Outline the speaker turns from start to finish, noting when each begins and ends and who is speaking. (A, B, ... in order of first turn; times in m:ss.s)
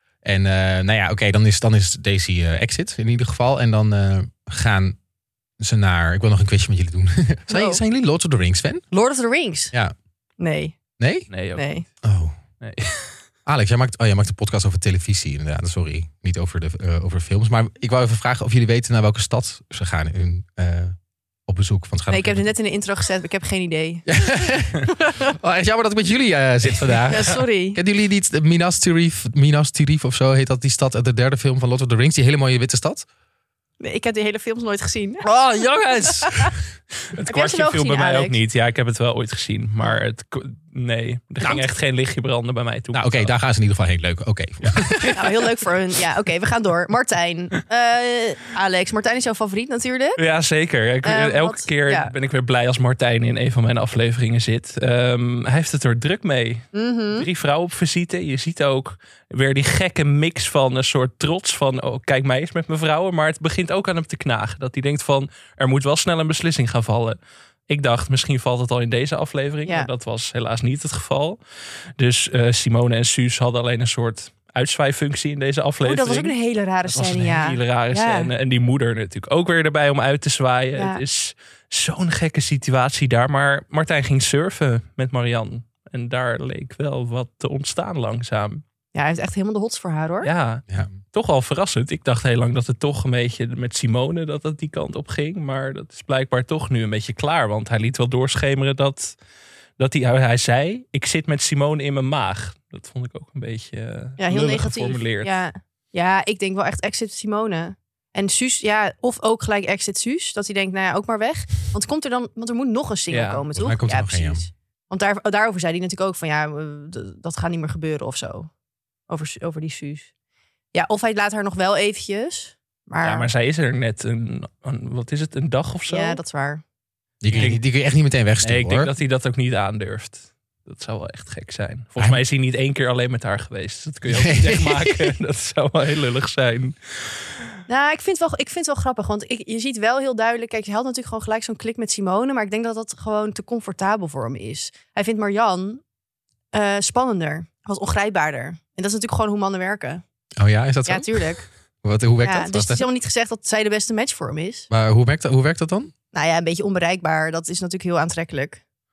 0:00.2-0:05.0 A
0:05.6-0:08.8 A
0:07.5-0:07.8 B
0:08.9-0:09.7 B
0:10.4-0:10.8 B
0:11.0-0:11.3 A
0:11.3-0:11.7 C
0:11.6-0:11.8 B
0:12.0-0:12.4 A
0:12.6-0:13.2 C
0:13.5-0:21.0 A
0:21.5-0:22.6 A
0:22.1-0:24.1 B
0:24.1-0:33.0 A
0:24.8-0:25.2 B
0:27.0-0:27.8 B
0:33.8-0:35.3 B
0:35.2-0:36.6 C
0:36.0-0:36.5 B
0:37.1-0:43.3 C
0:37.2-0:38.4 B
0:42.9-0:45.3 A
0:44.6-0:45.2 C
0:45.1-0:50.2 B
0:50.2-1:07.2 C
0:51.0-0:52.1 B
0:56.7-0:57.3 B
1:07.7-1:11.4 C
1:09.6-1:09.9 B
1:12.0-1:16.3 C
1:15.8-1:18.3 B
1:16.9-1:28.6 C
1:20.8-1:21.0 B
1:28.9-1:30.3 B
1:30.2-1:39.2 C
1:39.8-1:45.4 C
1:44.2-1:58.5 B
1:53.1-1:53.5 C
1:53.6-1:54.4 A
1:59.1-2:00.1 B
2:00.7-2:03.3 B
2:03.0-2:06.2 C
2:05.9-2:06.6 B
2:07.2-2:08.9 A
2:07.3-2:07.6 B
2:07.4-2:07.6 C
2:08.4-2:17.5 C
2:14.1-2:15.1 A
2:17.7-2:25.8 B
2:26.5-2:30.0 B
2:30.4-2:31.2 A
2:30.9-2:31.4 B
2:31.8-2:32.8 A
2:32.2-2:34.7 B
2:34.7-2:35.9 A
2:36.1-2:38.6 B